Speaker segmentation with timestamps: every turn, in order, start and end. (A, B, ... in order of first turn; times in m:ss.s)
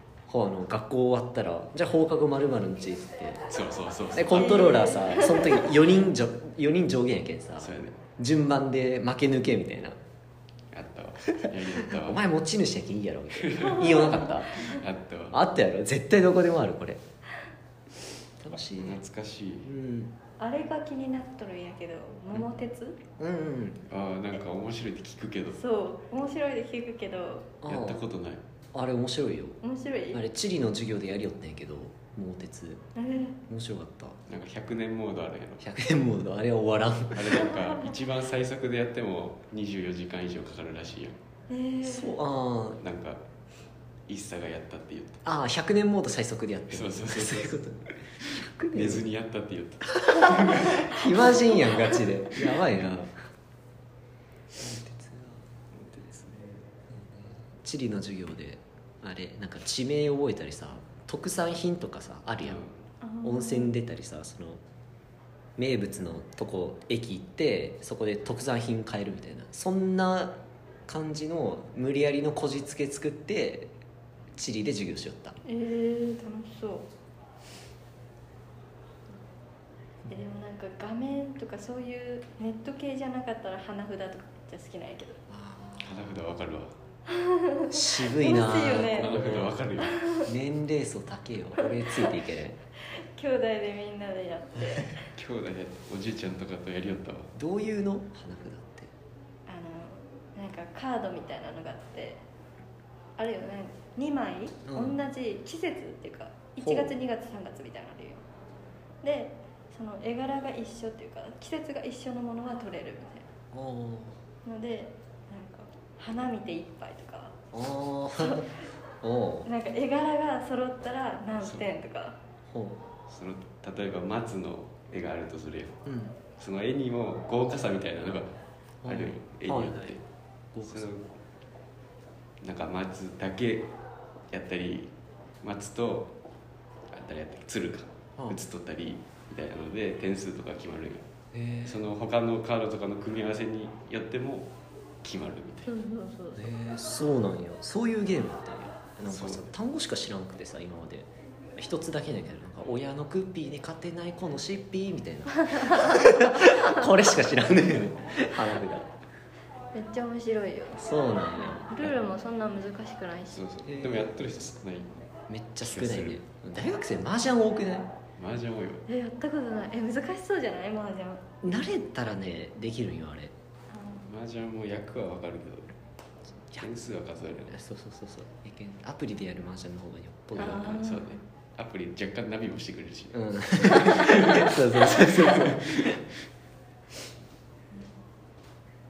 0:00.3-0:03.4 A
0:03.5-0:04.7 B
0:04.1-0:10.0 A
0:04.3-0:05.7 C
0:07.6-0:08.0 B
0:10.7-0:12.2 B
0:11.3-0:14.5 A
0:13.4-0:15.4 B
0:13.7-0:14.8 C
0:15.3-0:17.0 A
0:18.4-0:19.0 A
0:18.8-0:19.7 B
0:19.6-0:20.1 A
0:20.4-0:23.0 C
0:23.2-0:23.8 A
0:23.9-0:25.6 B
0:25.5-0:27.5 C
0:27.6-0:28.0 A
0:27.7-0:28.4 B
0:28.7-0:29.6 A
0:29.6-0:30.2 C
0:30.1-0:32.8 A
0:33.0-0:33.4 C
0:33.5-0:34.2 A
0:34.3-0:35.6 B
0:35.6-0:37.5 A
0:37.1-0:41.2 B
0:37.5-0:37.9 C
0:41.5-0:42.1 C
0:41.8-0:42.8 A
0:42.8-0:43.2 B
0:44.1-0:45.2 B
0:45.2-0:49.1 A
0:46.7-0:47.6 B
0:48.7-0:50.8 B
0:49.9-0:53.1 A
0:50.7-0:51.0 C
0:54.6-0:55.5 A
0:55.7-0:56.7 B
0:56.9-1:02.6 A
1:02.4-1:02.8 B
1:03.0-1:03.7 C
1:03.2-1:04.6 A
1:05.6-1:13.7 A
1:14.3-1:15.4 A
1:15.4-1:16.9 C
1:20.1-1:25.2 C
1:25.3-1:26.2 A
1:25.8-1:26.7 B
1:27.1-1:29.1 C
1:27.7-1:29.6 A
1:28.9-1:30.0 B
1:29.8-1:30.3 C
1:30.2-1:32.6 A
1:31.6-1:32.1 C
1:32.9-1:35.1 C
1:35.1-1:37.3 B
1:37.3-1:38.9 A
1:39.5-1:42.2 C
1:43.2-1:48.2 C
1:44.6-1:45.0 A
1:46.6-1:46.9 A
1:49.0-1:53.3 C
1:53.5-1:54.2 A
1:54.4-1:57.3 C
1:57.5-1:59.5 A
1:58.2-1:58.6 C
1:59.4-2:02.2 C
2:01.4-2:01.7 B
2:02.5-2:02.8 A
2:03.1-2:05.8 B
2:05.8-2:06.2 A
2:06.4-2:08.3 B
2:08.8-2:10.0 A
2:08.8-2:10.0 B
2:10.5-2:10.9 A
2:10.6-2:11.1 B
2:12.4-2:13.7 B
2:14.3-2:16.1 B
2:16.9-2:21.1 B
2:18.2-2:18.4 A
2:21.3-2:21.8 A
2:21.6-2:24.5 B
2:25.0-2:25.7 B
2:25.7-2:26.4 C
2:26.3-2:38.9 A
2:29.0-2:29.5 B
2:35.5-2:37.0 C
2:39.7-2:43.4 C
2:40.8-2:42.0 A
2:43.3-2:45.1 B
2:43.6-2:44.1 A
2:45.3-2:47.9 A
2:45.6-2:46.2 B
2:48.2-2:48.8 B
2:48.9-2:51.2 C
2:51.4-2:53.3 A
2:53.7-2:54.1 C
2:54.1-2:55.7 B
2:56.6-2:57.6 B
2:57.3-3:00.8 A
3:00.4-3:05.9 B
3:00.4-3:01.2 C
3:03.1-3:06.0 A
3:03.8-3:04.2 C
3:04.9-3:05.2 C